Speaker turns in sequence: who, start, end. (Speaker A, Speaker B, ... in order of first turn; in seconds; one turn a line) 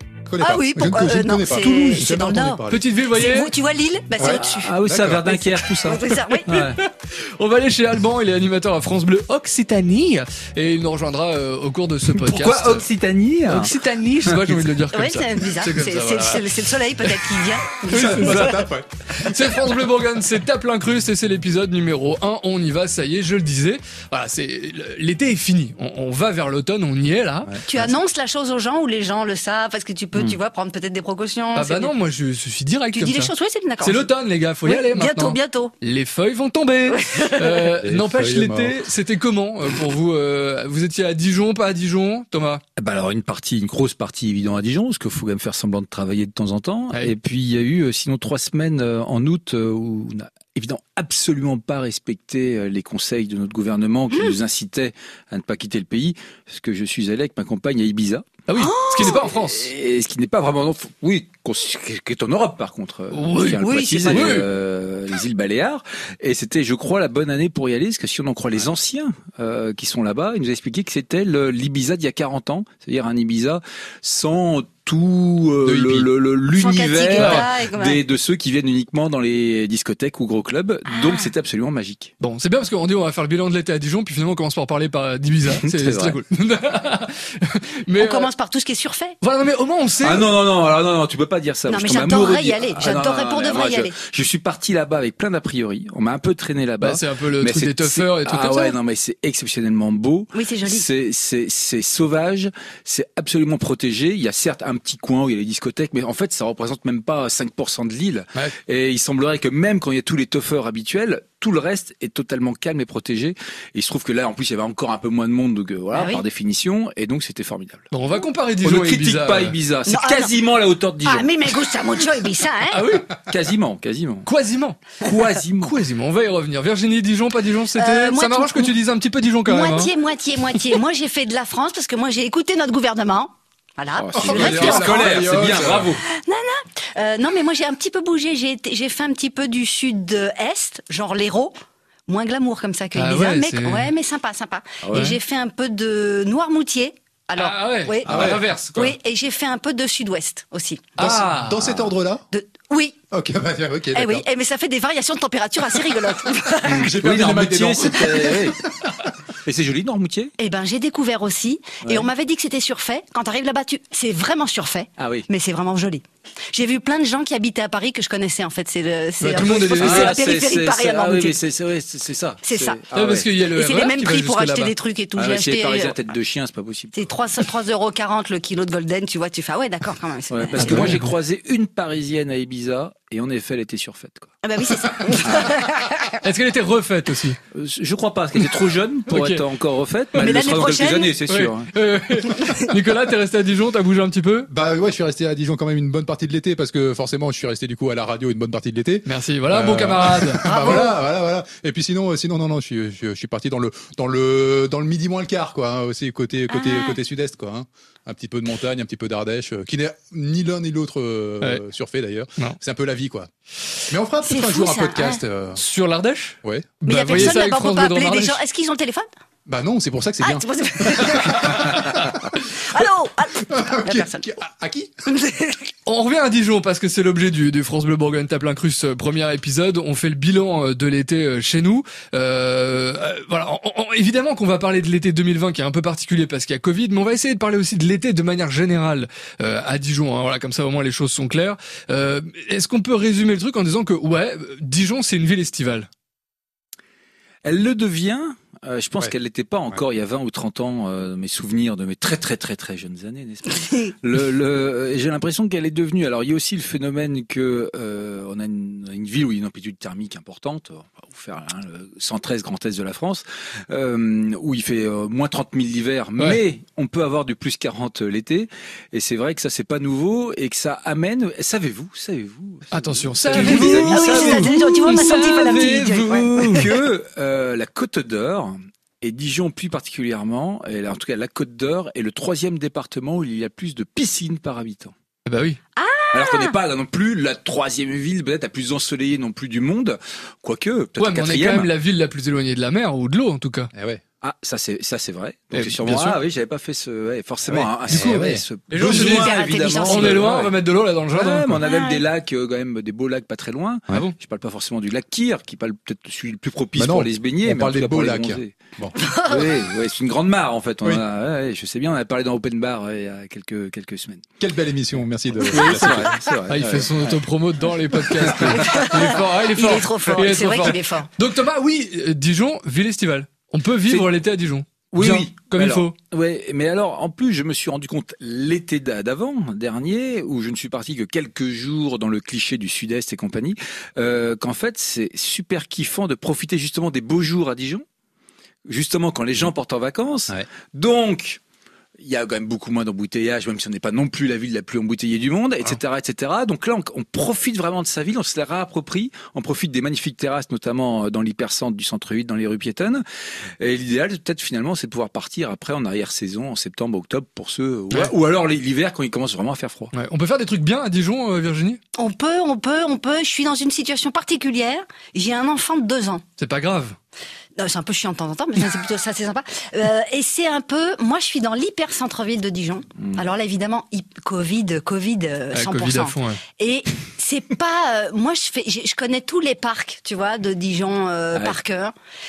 Speaker A: 0.3-2.8
Speaker B: 0.4-6.5
Speaker C: 2.7-3.5
Speaker A: 4.2-5.3
Speaker D: 4.2-6.8
Speaker C: 6.5-12.9
Speaker D: 12.1-13.7
Speaker C: 13.4-18.6
Speaker D: 14.2-14.6
Speaker B: 14.9-18.6
Speaker A: 17.8-19.7
Speaker C: 19.1-27.5
Speaker A: 27.4-27.9
Speaker B: 27.6-31.9
Speaker C: 31.5-42.6
Speaker B: 32.9-34.1
Speaker B: 34.6-35.7
Speaker B: 36.9-37.7
Speaker A: 37.8-38.7
Speaker D: 42.8-58.3
Speaker C: 58.5-59.7
Speaker B: 58.5-59.3
Speaker D: 59.0-82.1
Speaker C: 63.1-64.5
Speaker B: 63.6-64.4
Speaker A: 75.6-76.1
Speaker B: 76.5-78.0
Speaker C: 77.1-77.5
Speaker B: 80.9-81.3
Speaker C: 82.2-88.3
Speaker D: 85.5-86.2
Speaker B: 88.0-89.1
Speaker C: 89.2-90.3
Speaker D: 90.0-117.9
Speaker B: 91.7-94.0
Speaker C: 96.8-98.8
Speaker B: 100.3-100.9
Speaker B: 115.9-116.2
Speaker C: 117.9-119.5
Speaker D: 118.6-121.3
Speaker B: 119.9-120.3
Speaker B: 121.0-122.9
Speaker C: 122.7-123.2
Speaker D: 123.3-124.3
Speaker C: 124.2-125.0
Speaker D: 125.0-125.7
Speaker C: 125.6-129.9
Speaker B: 127.8-128.7
Speaker B: 129.5-150.8
Speaker D: 133.9-136.0
Speaker A: 134.1-135.9
Speaker C: 142.9-143.9
Speaker D: 144.8-145.1
Speaker C: 147.4-148.9
Speaker A: 148.1-148.4
Speaker C: 151.0-151.8
Speaker A: 151.0-152.2
Speaker B: 152.3-153.0
Speaker A: 153.1-154.2
Speaker B: 153.9-156.9
Speaker D: 156.7-158.6
Speaker A: 156.7-159.1
Speaker D: 159.4-160.3
Speaker B: 160.4-171.4
Speaker D: 165.0-165.2
Speaker C: 169.2-170.2
Speaker D: 169.8-173.3
Speaker B: 172.4-172.8
Speaker C: 172.9-174.7
Speaker B: 173.5-175.9
Speaker D: 175.2-177.1
Speaker B: 176.9-180.9
Speaker D: 180.3-184.3
Speaker C: 180.6-181.0
Speaker A: 180.6-180.9
Speaker B: 184.4-186.2
Speaker D: 185.2-185.6
Speaker C: 186.2-187.4
Speaker D: 187.5-191.7
Speaker C: 189.1-189.4
Speaker B: 190.2-191.1
Speaker C: 191.3-194.5
Speaker B: 192.3-192.7
Speaker A: 194.5-213.3
Speaker C: 199.1-200.8
Speaker B: 200.4-200.9
Speaker B: 206.5-207.0
Speaker A: 213.9-215.6
Speaker B: 214.2-215.2
Speaker C: 215.6-218.4
Speaker A: 216.4-217.3
Speaker B: 216.8-219.1
Speaker A: 219.4-222.8
Speaker B: 220.2-224.2
Speaker A: 223.4-224.9
Speaker B: 225.1-225.6
Speaker C: 225.8-245.9
Speaker D: 247.4-284.9
Speaker B: 253.4-253.9
Speaker C: 272.7-276.7
Speaker B: 273.3-276.7
Speaker C: 285.2-285.6
Speaker B: 285.8-286.6
Speaker D: 286.1-291.7
Speaker C: 291.0-293.7
Speaker A: 293.7-294.0
Speaker D: 294.2-300.6
Speaker C: 295.5-296.2
Speaker A: 297.4-298.9
Speaker C: 298.7-301.6
Speaker B: 298.8-300.2
Speaker D: 301.1-308.6
Speaker B: 301.6-302.0
Speaker A: 306.8-308.9
Speaker B: 308.9-309.7
Speaker D: 309.2-314.3
Speaker A: 314.4-316.3
Speaker D: 315.5-317.2
Speaker C: 315.6-325.9
Speaker D: 318.1-318.9
Speaker B: 318.4-321.1
Speaker D: 324.9-337.8
Speaker A: 325.0-325.3
Speaker D: 338.6-341.4
Speaker D: 342.0-353.0
Speaker D: 353.6-359.9
Speaker C: 359.9-361.8
Speaker B: 361.9-366.2
Speaker C: 366.4-367.0
Speaker B: 367.6-381.9
Speaker C: 375.5-376.4